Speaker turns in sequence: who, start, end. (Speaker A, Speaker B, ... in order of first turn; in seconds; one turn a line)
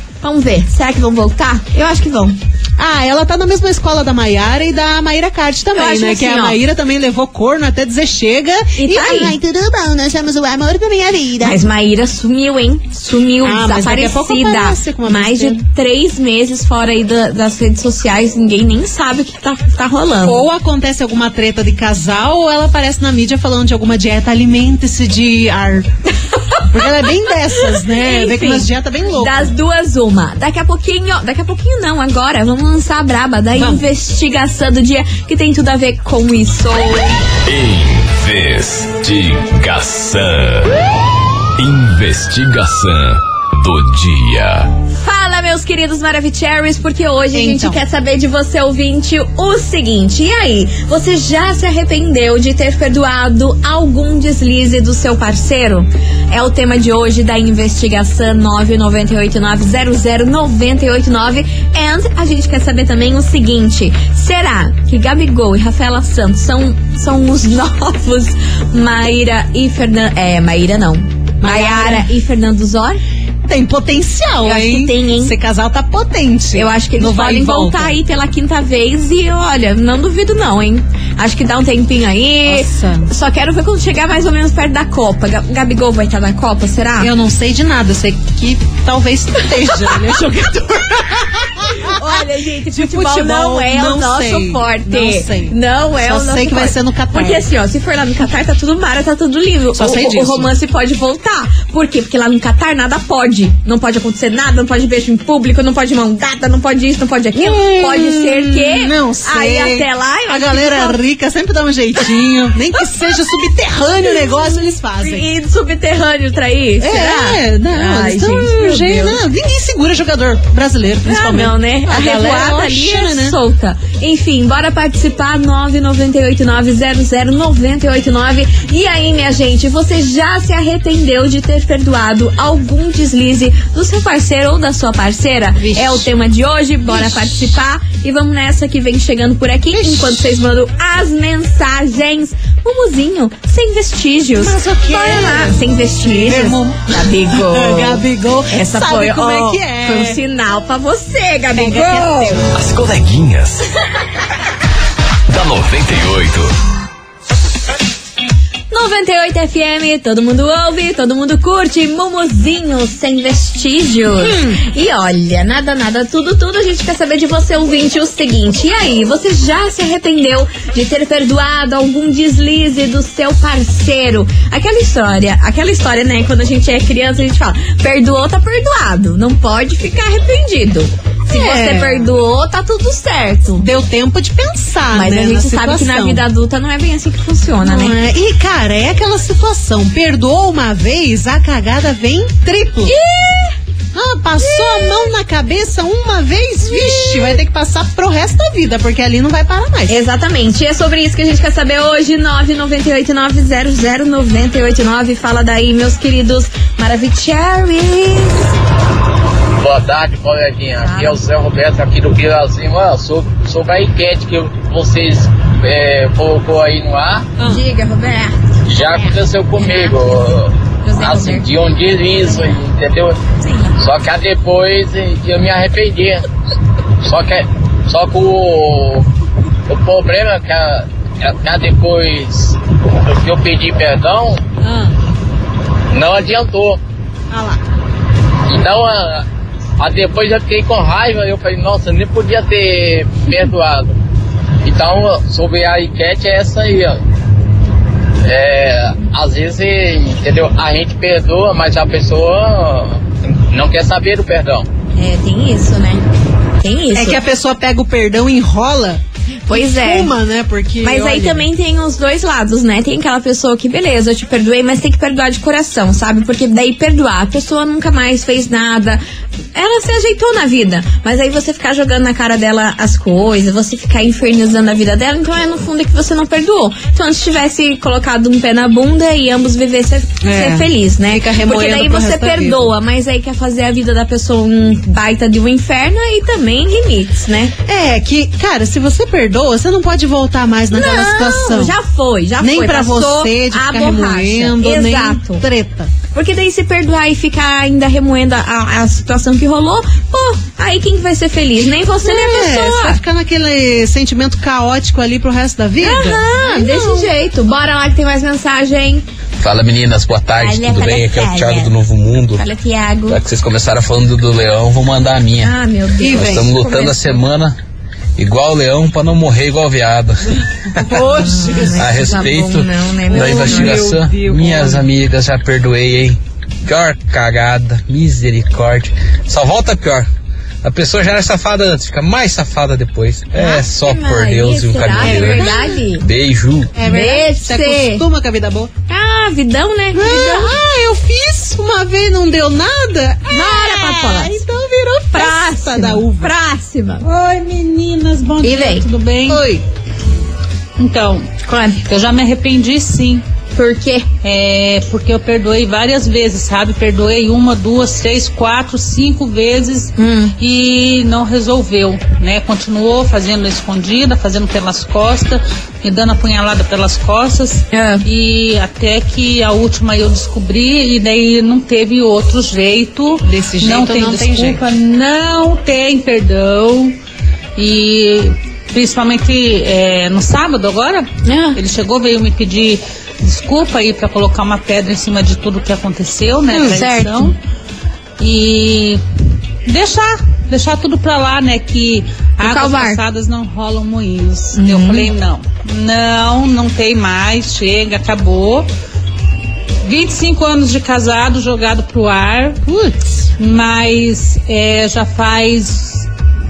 Speaker A: 0.2-2.4
Speaker B: 2.8-11.6
Speaker A: 5.7-6.6
Speaker A: 8.8-9.4
Speaker A: 11.4-20.5
Speaker B: 13.4-15.6
Speaker B: 20.2-25.9
Speaker A: 26.5-37.2
Speaker B: 26.7-29.6
Speaker B: 33.5-33.8
Speaker C: 37.5-40.7
Speaker C: 41.6-44.7
Speaker A: 44.9-73.0
Speaker B: 47.3-47.8
Speaker B: 71.4-72.1
Speaker B: 73.5-78.0
Speaker A: 74.4-75.3
Speaker A: 76.5-87.1
Speaker B: 82.5-83.1
Speaker B: 87.0-92.1
Speaker A: 91.7-111.0
Speaker B: 92.7-97.4
Speaker B: 99.8-100.5
Speaker B: 107.3-115.3
Speaker A: 114.1-119.2
Speaker B: 116.8-123.4
Speaker A: 121.1-152.4
Speaker B: 135.6-136.1
Speaker B: 136.9-137.5
Speaker B: 139.7-140.2
Speaker B: 144.4-150.2
Speaker B: 151.6-152.5
Speaker C: 152.5-153.7
Speaker C: 155.3-156.5
Speaker A: 158.7-183.7
Speaker B: 164.3-164.6
Speaker B: 181.3-182.1
Speaker B: 183.6-186.2
Speaker A: 184.9-188.0
Speaker B: 187.6-192.9
Speaker A: 192.8-193.6
Speaker B: 193.9-199.9
Speaker A: 194.4-195.1
Speaker A: 196.7-197.4
Speaker A: 199.9-208.5
Speaker D: 209.6-217.3
Speaker A: 210.8-211.2
Speaker B: 217.4-217.7
Speaker A: 217.4-220.2
Speaker D: 218.7-223.2
Speaker A: 220.8-221.5
Speaker A: 223.4-223.7
Speaker D: 223.8-226.2
Speaker D: 227.0-229.1
Speaker D: 229.7-234.4
Speaker B: 234.6-235.0
Speaker D: 235.9-236.8
Speaker B: 237.3-237.6
Speaker D: 238.5-239.2
Speaker D: 239.8-243.9
Speaker D: 244.6-247.0
Speaker D: 248.2-254.7
Speaker A: 255.0-256.1
Speaker A: 256.6-257.2
Speaker B: 256.9-261.5
Speaker A: 259.5-260.1
Speaker A: 260.8-269.0
Speaker A: 269.5-287.5
Speaker B: 280.2-282.7
Speaker B: 287.7-291.8
Speaker A: 290.7-295.4
Speaker B: 292.4-295.9
Speaker A: 296.1-303.0
Speaker B: 302.0-307.1
Speaker A: 305.8-309.1
Speaker E: 309.4-312.4
Speaker A: 310.3-311.7
Speaker A: 312.3-313.2
Speaker E: 313.1-315.5
Speaker A: 315.4-317.0
Speaker B: 316.0-316.7
Speaker E: 316.1-317.6
Speaker E: 318.2-320.3
Speaker B: 320.8-322.3
Speaker A: 321.2-323.9
Speaker E: 321.8-330.1
Speaker B: 323.1-324.9
Speaker E: 330.6-336.7
Speaker A: 333.4-336.0
Speaker B: 335.0-335.8
Speaker B: 336.8-338.7
Speaker A: 336.8-338.0
Speaker A: 338.9-340.5
Speaker B: 339.9-346.3
Speaker A: 343.3-344.4
Speaker A: 345.1-347.1
Speaker F: 347.0-349.4
Speaker A: 348.4-348.9
Speaker B: 349.3-349.6
Speaker F: 350.8-351.3
Speaker A: 351.4-351.8
Speaker F: 351.9-353.2
Speaker A: 353.6-354.1
Speaker F: 354.2-377.0
Speaker A: 360.0-360.4
Speaker A: 367.7-368.1
Speaker B: 373.2-374.6
Speaker F: 377.6-387.4
Speaker A: 381.2-381.6
Speaker A: 386.5-387.3
Speaker F: 388.2-389.0
Speaker F: 389.7-398.7
Speaker A: 392.4-393.0
Speaker A: 394.6-395.1
Speaker F: 399.8-402.6
Speaker B: 402.6-403.2
Speaker F: 403.4-406.1